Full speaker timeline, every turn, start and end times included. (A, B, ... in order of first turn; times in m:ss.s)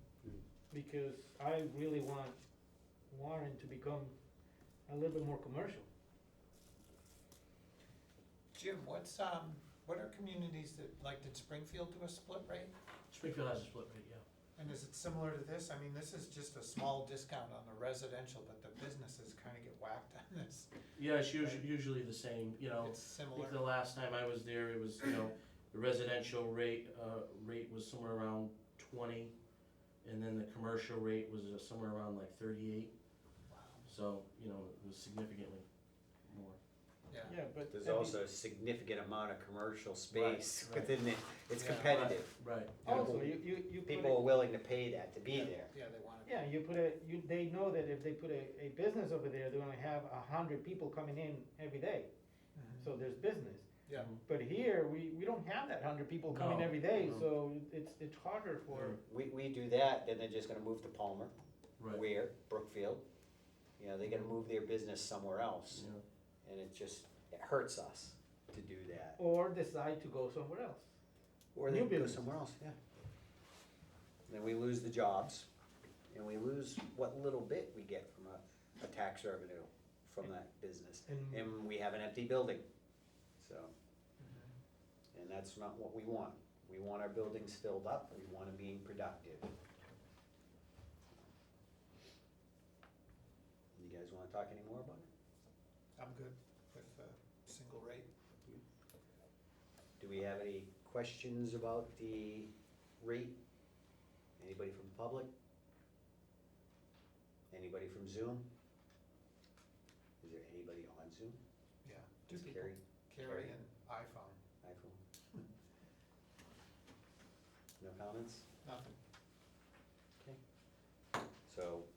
0:00.7-0:02.4 A
0:03.1-0:04.1 A
0:04.9-0:05.9 A
0:08.5-0:12.7 B
0:13.1-0:14.2 C
0:14.6-0:20.7 B
0:20.9-0:29.3 C
0:22.8-0:23.6 B
0:30.0-0:32.9 C
0:33.5-0:33.8 B
0:33.8-0:35.6 C
0:36.2-0:36.6 C
0:37.1-0:37.4 B
0:37.2-0:38.2 A
0:37.7-0:42.3 D
0:40.1-0:40.9 C
0:41.6-0:41.9 B
0:41.8-0:43.2 C
0:42.8-0:43.2 B
0:42.8-0:44.2 A
0:42.8-0:45.7 D
0:45.3-0:46.4 B
0:46.2-0:52.1 A
0:52.5-0:52.9 B
0:52.8-0:53.7 A
0:53.8-0:54.1 B
0:53.9-0:54.2 C
0:54.2-0:59.0 A
0:56.3-0:57.3 C
0:58.7-0:59.0 C
0:59.0-1:01.3 D
1:01.9-1:03.0 D
1:03.8-1:05.8 D
1:05.7-1:06.0 C
1:06.4-1:09.2 D
1:09.2-1:10.9 A
1:11.5-1:12.8 D
1:11.7-1:12.2 A
1:14.3-1:15.5 D
1:16.1-1:22.6 D
1:21.1-1:21.5 A
1:23.4-1:23.7 D
1:24.2-1:24.5 B
1:25.1-1:29.5 D
1:33.7-1:35.1 D
1:36.0-1:38.5 B
1:40.0-1:43.3 D
1:44.4-1:45.3 D
1:47.5-1:48.4 D
1:50.2-1:51.4 D
1:51.8-1:54.4 B
1:52.3-1:53.5 D
1:54.6-1:55.0 D
1:57.8-1:58.5 D
1:58.6-1:59.0 B
2:01.5-2:01.9 D